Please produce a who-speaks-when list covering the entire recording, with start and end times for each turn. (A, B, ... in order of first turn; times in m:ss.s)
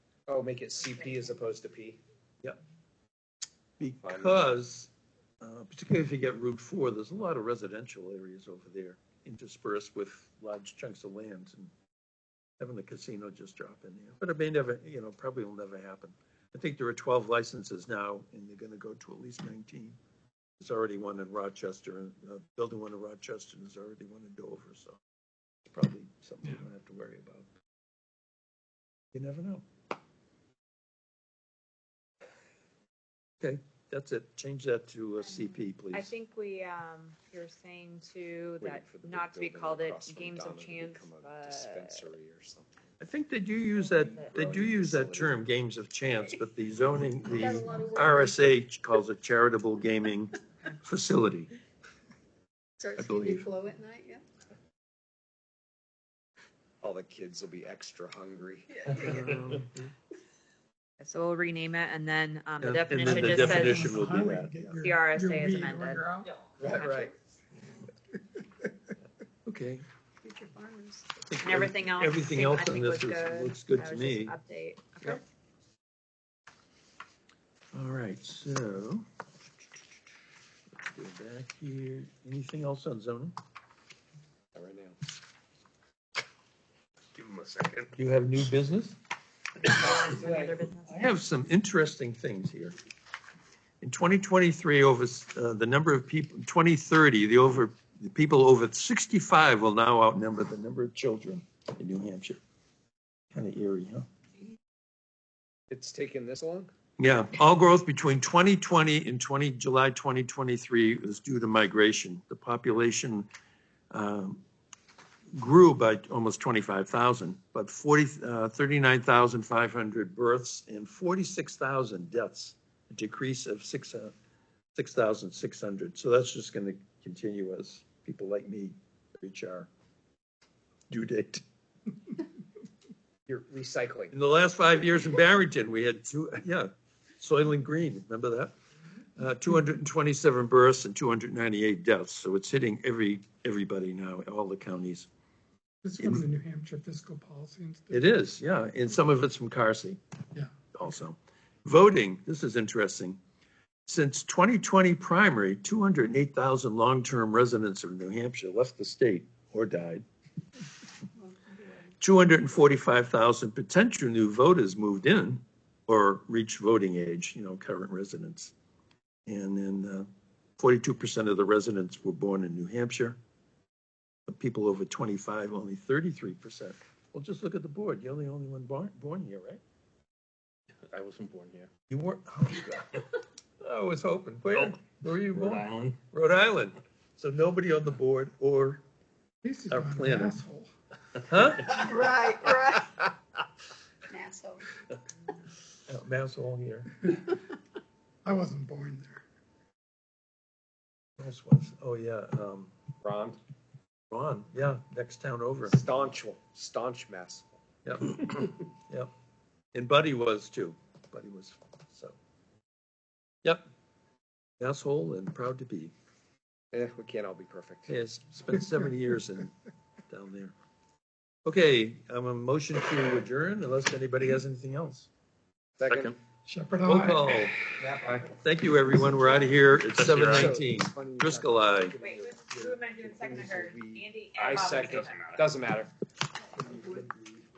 0:00.3-0:02.0 A
0:03.8-0:11.7 B
0:04.0-0:04.6 A
0:12.6-0:20.0 B
0:20.6-0:25.0 B
0:25.7-0:27.5 B
0:29.1-0:29.6 B
0:33.4-0:36.1 B
0:35.9-0:42.1 C
0:38.6-0:42.8 A
0:43.0-0:51.5 B
0:43.8-0:44.4 C
0:44.3-0:45.4 A
0:47.3-0:48.4 D
0:52.8-0:54.2 D
0:53.0-0:53.5 B
0:56.8-0:59.1 A
0:58.9-0:59.9 B
1:01.0-1:04.0 C
1:02.6-1:04.7 B
1:03.0-1:06.3 E
1:04.8-1:06.1 C
1:06.6-1:07.1 A
1:06.7-1:07.1 C
1:09.5-1:09.9 B
1:10.2-1:11.2 D
1:11.3-1:14.4 B
1:11.4-1:15.2 C
1:17.7-1:19.0 B
1:20.8-1:23.4 B
1:24.6-1:25.0 A
1:27.2-1:27.9 F
1:28.0-1:29.0 B
1:29.6-1:31.1 C
1:30.0-1:30.6 A
1:30.8-1:32.8 B
1:33.8-1:42.4 B
1:43.3-1:44.1 B
1:45.7-1:46.7 A
1:47.0-1:53.3 B
1:53.9-1:54.4 B
1:55.4-2:04.1 B
2:04.8-2:09.7 B
2:10.9-2:11.4 B
2:13.3-2:14.1 A
2:14.1-2:18.5 B
2:19.2-2:25.1 B
2:25.8-2:28.1 E
2:27.9-2:30.0 B
2:30.7-2:33.2 B
2:33.9-2:40.0 B
2:42.0-2:48.5 B
2:49.3-2:50.1 B
2:50.6-2:53.2 B
2:54.3-2:59.6 B
3:00.9-3:01.7 F
3:01.9-3:03.1 B
3:03.6-3:08.8 B
3:05.3-3:06.0 F
3:09.4-3:10.7 E
3:09.7-3:10.4 B
3:11.2-3:11.9 B
3:11.7-3:12.9 D
3:14.1-3:14.6 D
3:15.9-3:17.0 B
3:18.2-3:19.2 E
3:21.2-3:22.7 B
3:23.0-3:23.4 A
3:24.1-3:25.9 B
3:25.6-3:27.6 A
3:27.8-3:29.1 B
3:29.7-3:32.2 B
3:34.6-3:35.9 B
3:36.7-3:37.9 A
3:37.9-3:39.5 B
3:40.1-3:40.5 B
3:41.5-3:45.1 B
3:45.8-3:46.1 A
3:45.9-3:46.2 F
3:46.4-3:47.5 E
3:46.8-3:47.6 B
3:47.8-3:48.3 A
3:48.3-3:52.0 B
3:49.9-3:50.6 F
3:50.3-3:55.9 A
3:52.0-3:55.2 C
3:54.8-3:55.5 F
3:56.8-3:57.2 A